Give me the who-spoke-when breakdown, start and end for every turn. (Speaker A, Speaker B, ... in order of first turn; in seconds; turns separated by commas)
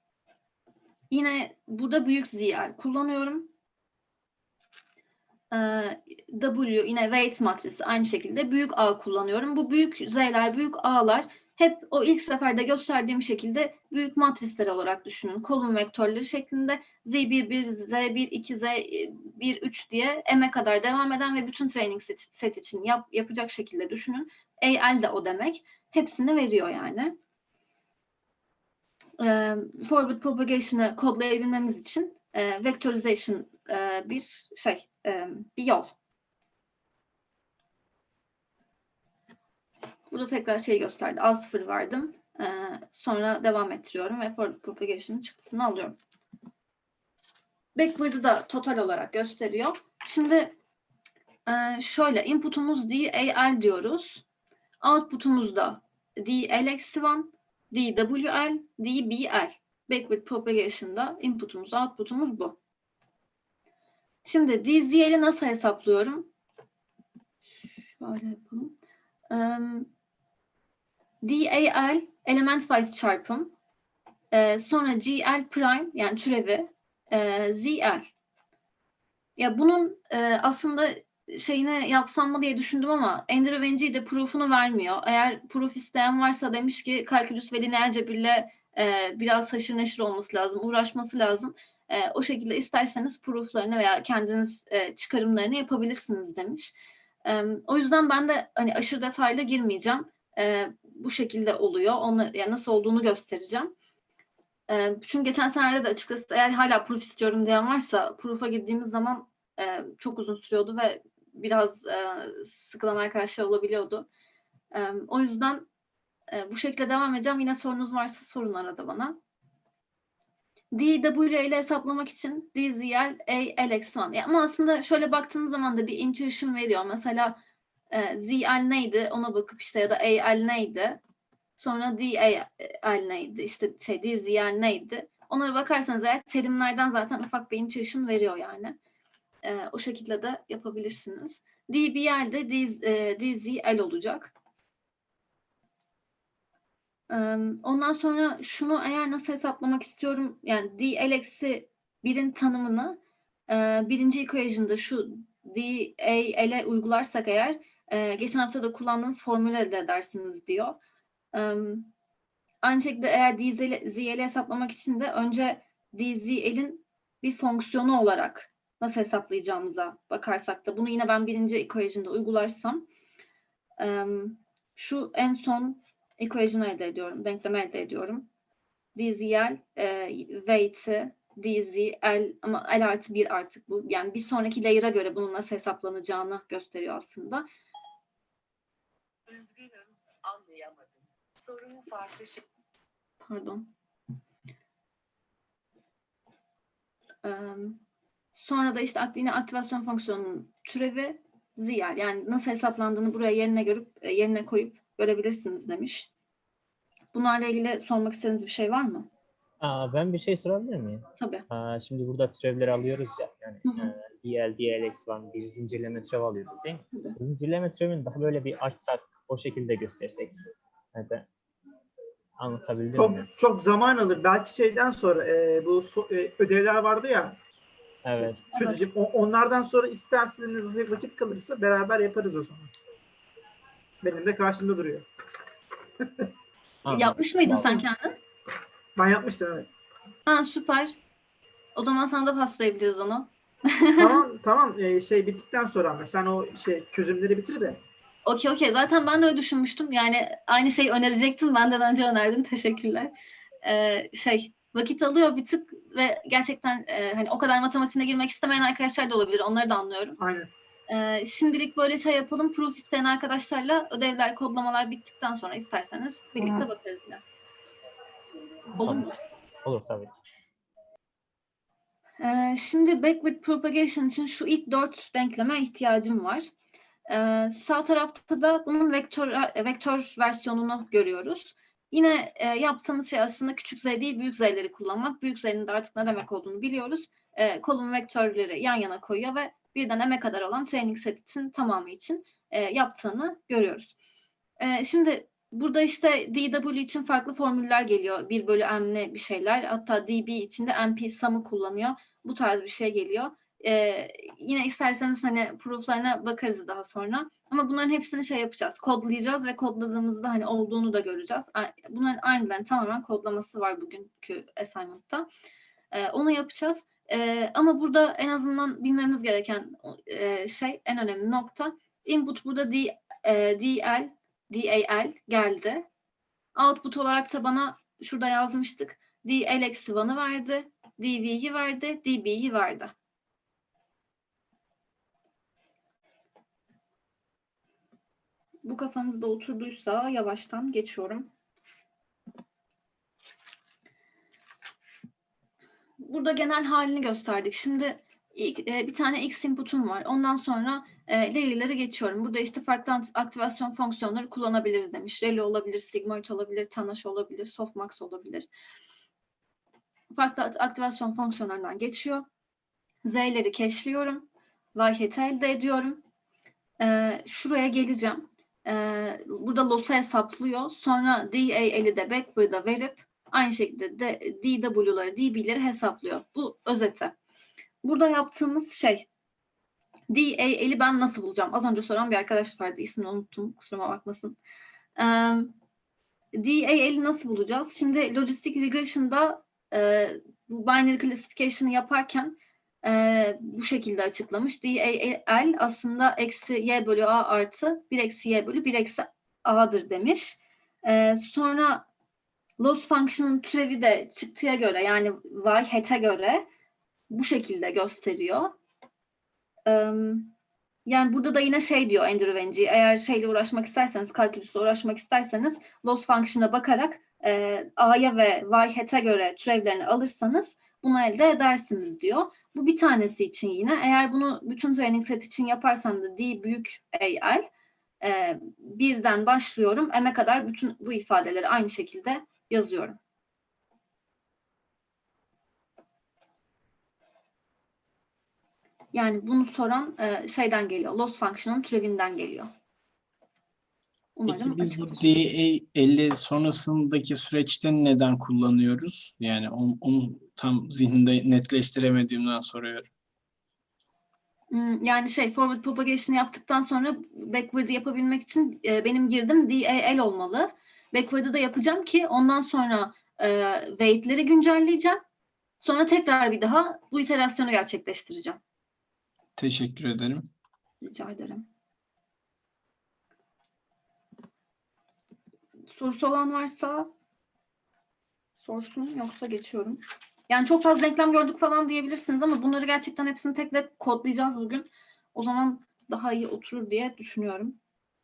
Speaker A: 1.1-3.5, Speaker A: 5.5-27.1, Speaker A: 29.2-35.9, Speaker A: 40.1-45.9, Speaker A: 47.8-50.5, Speaker A: 51.5-54.2, Speaker A: 54.8-62.6, Speaker A: 64.2-66.3, Speaker A: 67.6-68.8, Speaker A: 69.3-69.9, Speaker A: 71.2-73.5, Speaker A: 74.3-78.1, Speaker A: 79.4-103.7, Speaker A: 104.7-114.1, Speaker A: 114.7-115.7, Speaker A: 116.3-119.2, Speaker A: 120.7-127.4, Speaker A: 127.9-131.0, Speaker A: 131.6-138.8, Speaker A: 139.4-144.3, Speaker A: 147.1-160.8, Speaker A: 161.3-161.9, Speaker A: 162.6-172.9, Speaker A: 173.8-178.3, Speaker A: 178.9-187.5, Speaker B: 189.3-190.9, Speaker B: 191.4-192.4, Speaker A: 193.2-193.7, Speaker A: 197.2-197.8, Speaker A: 198.3-206.1, Speaker A: 207.1-209.1, Speaker C: 209.6-220.4, Speaker A: 211.2-211.4, Speaker A: 213.7-213.9, Speaker C: 220.9-221.3, Speaker C: 222.4-223.2, Speaker D: 223.0-227.4, Speaker C: 228.0-228.6, Speaker D: 228.2-232.7, Speaker D: 234.0-235.1, Speaker C: 236.8-237.8, Speaker A: 236.9-238.2, Speaker D: 239.0-239.7, Speaker A: 240.2-241.0, Speaker A: 241.8-244.2, Speaker D: 244.0-247.8, Speaker A: 248.2-253.1, Speaker A: 253.6-260.2, Speaker D: 260.2-260.5, Speaker A: 260.9-267.2, Speaker D: 266.4-266.6, Speaker A: 268.8-269.1, Speaker C: 268.8-269.1, Speaker C: 269.6-270.1, Speaker A: 272.2-276.5, Speaker A: 277.1-293.9, Speaker A: 294.6-315.3, Speaker A: 315.9-325.9, Speaker A: 326.5-332.9, Speaker A: 338.6-341.3, Speaker A: 346.0-358.5, Speaker A: 360.1-362.2, Speaker A: 363.0-366.0, Speaker A: 366.8-377.1, Speaker A: 377.8-379.1, Speaker A: 380.1-384.4, Speaker A: 385.0-385.5, Speaker A: 386.4-401.9, Speaker A: 402.6-406.4, Speaker A: 407.1-408.5, Speaker A: 409.6-410.3, Speaker A: 410.9-427.5, Speaker A: 428.0-433.0, Speaker A: 438.9-442.5, Speaker A: 444.1-445.0, Speaker E: 444.3-452.9, Speaker A: 454.5-465.0, Speaker A: 465.6-468.4, Speaker E: 469.4-470.2, Speaker A: 470.8-471.5, Speaker A: 475.7-476.9, Speaker A: 478.4-487.6